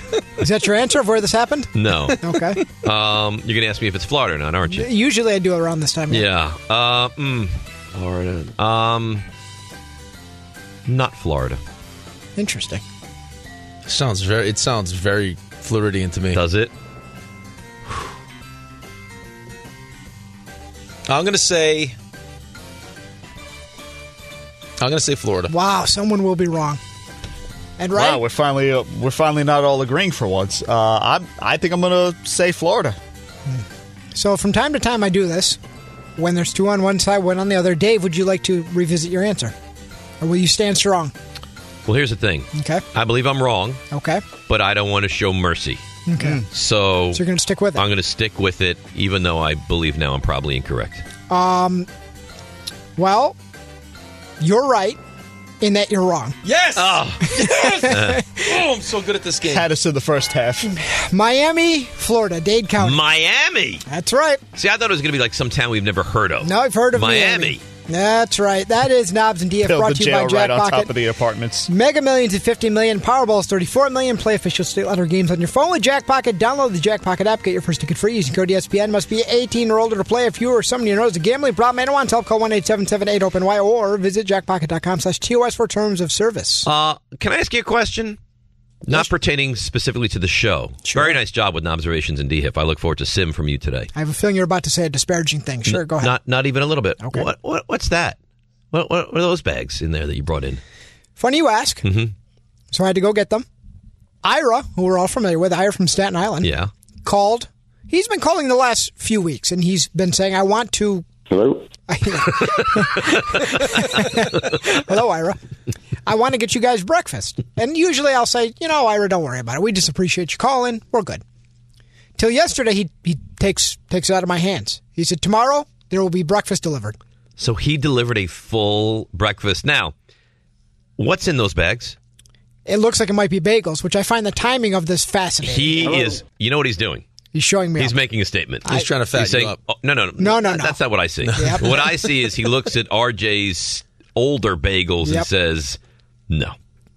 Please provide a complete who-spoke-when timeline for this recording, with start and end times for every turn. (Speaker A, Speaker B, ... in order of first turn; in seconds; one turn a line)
Speaker A: 0.4-2.6
Speaker B: 1.7-2.2
Speaker B: 2.8-4.9
Speaker A: 4.7-6.2
Speaker B: 6.1-9.2
Speaker B: 10.8-11.6
Speaker A: 12.4-12.8
Speaker C: 13.8-16.4
Speaker B: 16.3-16.7
Speaker C: 21.1-21.9
Speaker C: 24.8-25.5
Speaker A: 25.5-26.8
Speaker A: 27.8-28.2
Speaker D: 27.9-33.0
Speaker A: 33.5-35.6
Speaker A: 36.2-39.5
Speaker A: 40.2-41.1
Speaker B: 41.9-43.8
Speaker A: 42.5-42.8
Speaker A: 43.9-44.2
Speaker B: 44.5-45.8
Speaker A: 46.1-46.4
Speaker B: 46.5-47.2
Speaker A: 47.1-47.8
Speaker B: 47.8-51.0
Speaker A: 51.3-51.9
Speaker A: 53.0-53.4
Speaker A: 54.4-55.0
Speaker A: 55.6-56.4
Speaker C: 56.4-59.7
Speaker B: 56.8-58.2
Speaker A: 57.5-57.9
Speaker D: 59.5-60.7
Speaker A: 60.6-63.0
Speaker B: 62.8-63.8
Speaker A: 63.9-64.4
Speaker B: 64.5-67.6
Speaker A: 66.4-70.9
Speaker D: 69.6-71.7
Speaker A: 71.7-86.7
Speaker B: 86.7-88.2
Speaker B: 88.8-93.9
Speaker A: 90.8-91.2
Speaker A: 93.9-96.1
Speaker B: 95.7-98.2
Speaker A: 97.0-97.2
Speaker B: 98.7-100.6
Speaker A: 101.2-101.8
Speaker B: 101.8-102.1
Speaker A: 102.7-103.5
Speaker A: 104.2-106.5
Speaker B: 106.4-106.7
Speaker A: 107.0-111.0
Speaker A: 111.9-115.4
Speaker A: 116.0-121.2
Speaker A: 122.2-126.9
Speaker B: 127.4-129.9
Speaker B: 131.0-131.9
Speaker A: 132.7-136.0
Speaker B: 135.4-137.0
Speaker A: 137.3-137.9
Speaker B: 137.8-145.8
Speaker C: 138.6-139.6
Speaker A: 140.2-140.8
Speaker C: 141.2-142.0
Speaker A: 141.3-141.6
Speaker B: 146.3-146.5